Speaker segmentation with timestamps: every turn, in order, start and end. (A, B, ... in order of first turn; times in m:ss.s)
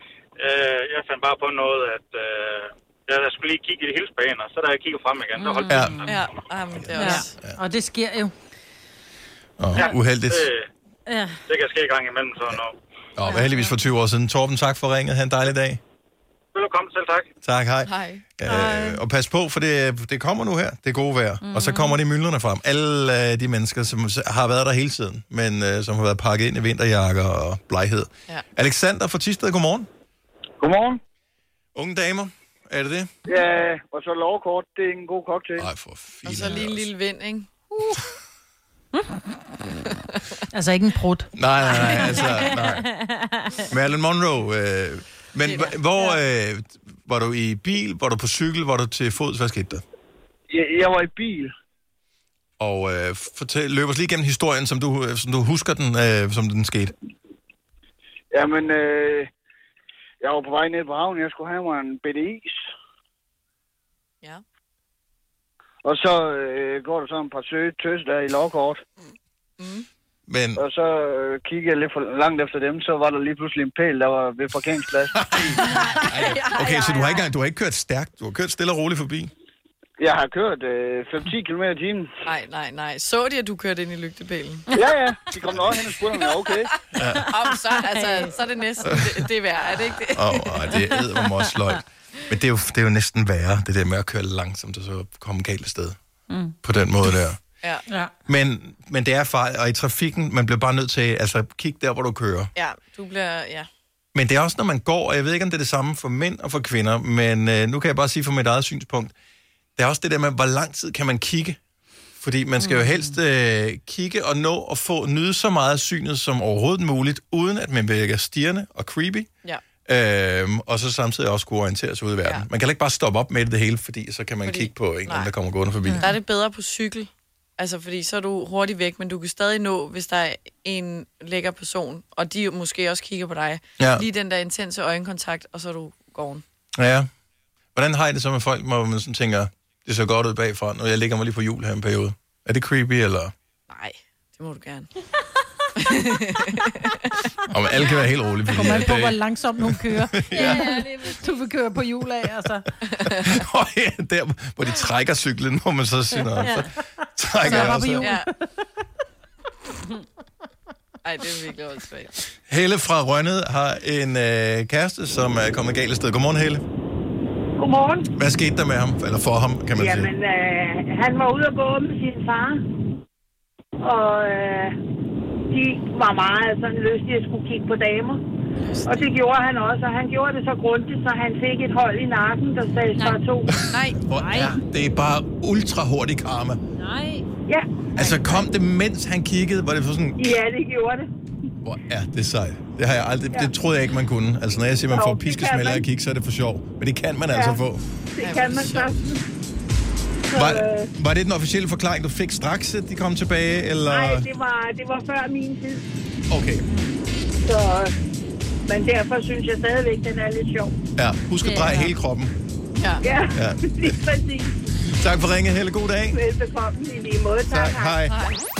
0:00.4-0:06.1 A
0:05.4-0:05.9 B
0:05.7-0:06.0 C
0:06.1-0:07.4 D
0:06.9-0:08.3 B
0:07.0-0:07.6 C
0:09.6-0:10.5 C
0:09.7-0:10.7 A
0:11.1-0:11.4 B
0:11.5-0:12.8 A
0:13.2-0:15.8 C
0:13.2-0:13.6 B
0:16.5-0:17.3 A
0:17.4-0:29.9 C
0:17.8-0:18.2 D
0:30.6-0:31.0 E
0:31.7-0:33.1 C
0:33.3-0:35.7 E
0:35.6-0:36.8 C
0:36.2-0:37.5 D
0:40.5-0:41.3 B
0:41.3-0:42.9 C
0:41.7-0:42.4 D
0:43.0-0:43.6 B
0:43.7-0:49.8 C
0:45.4-0:46.2 D
0:50.5-0:51.5 E
0:52.6-0:56.9 C
0:58.3-0:59.3 E
1:00.2-1:02.6 E
1:05.8-1:08.8 E
1:09.6-1:09.8 D
1:10.3-1:10.6 C
1:10.6-1:15.2 E
1:15.2-1:19.3 C
1:15.6-1:17.3 D
1:20.0-1:22.1 E
1:22.2-1:24.7 D
1:24.7-1:26.7 E
1:26.9-1:27.3 C
1:27.3-1:31.0 D
1:28.8-1:29.1 C
1:30.1-1:36.0 C
1:36.6-1:37.4 C
1:38.2-1:42.5 C
1:42.6-1:43.7 D
1:44.1-1:49.1 C
1:49.8-1:51.6 C
1:52.2-1:59.3 C
1:52.6-1:53.0 B
1:59.8-2:06.1 C
2:04.4-2:05.3 D
2:05.9-2:16.4 D
2:13.8-2:14.0 C
2:16.8-2:17.1 C
2:17.7-2:23.3 C
2:23.7-2:24.9 D
2:25.8-2:27.1 D
2:27.5-2:30.7 C
2:27.8-2:28.1 D
2:28.5-2:32.7 B
2:30.5-2:31.4 D
2:32.9-2:33.3 D
2:32.9-2:38.1 C
2:36.4-2:36.6 B
2:37.4-2:38.3 D
2:37.4-2:38.4 B
2:41.0-2:42.1 D
2:42.5-2:46.6 C
2:47.6-2:48.0 F
2:48.1-2:50.1 C
2:49.7-2:52.6 F
2:53.8-2:54.8 F
2:55.5-2:58.2 F
2:58.6-2:59.1 D
2:58.8-3:03.5 F
3:02.9-3:03.2 B
3:03.7-3:04.1 D
3:03.7-3:06.6 C
3:04.1-3:04.5 B
3:06.8-3:07.2 B
3:08.0-3:10.3 C
3:08.0-3:08.4 D
3:10.2-3:11.1 F
3:11.6-3:17.8 C
3:14.9-3:15.8 F
3:17.3-3:17.6 F
3:18.2-3:19.2 F
3:18.2-3:19.0 D
3:20.3-3:20.9 F
3:20.3-3:24.3 C
3:23.9-3:25.8 F
3:26.3-3:26.6 C
3:27.4-3:27.9 F
3:28.6-3:30.7 F
3:31.0-3:32.3 C
3:32.8-3:33.0 D
3:33.0-3:34.6 F
3:33.4-3:34.0 C
3:34.8-3:36.2 C
3:36.1-3:37.9 F
3:37.5-3:38.2 C
3:38.1-3:38.4 D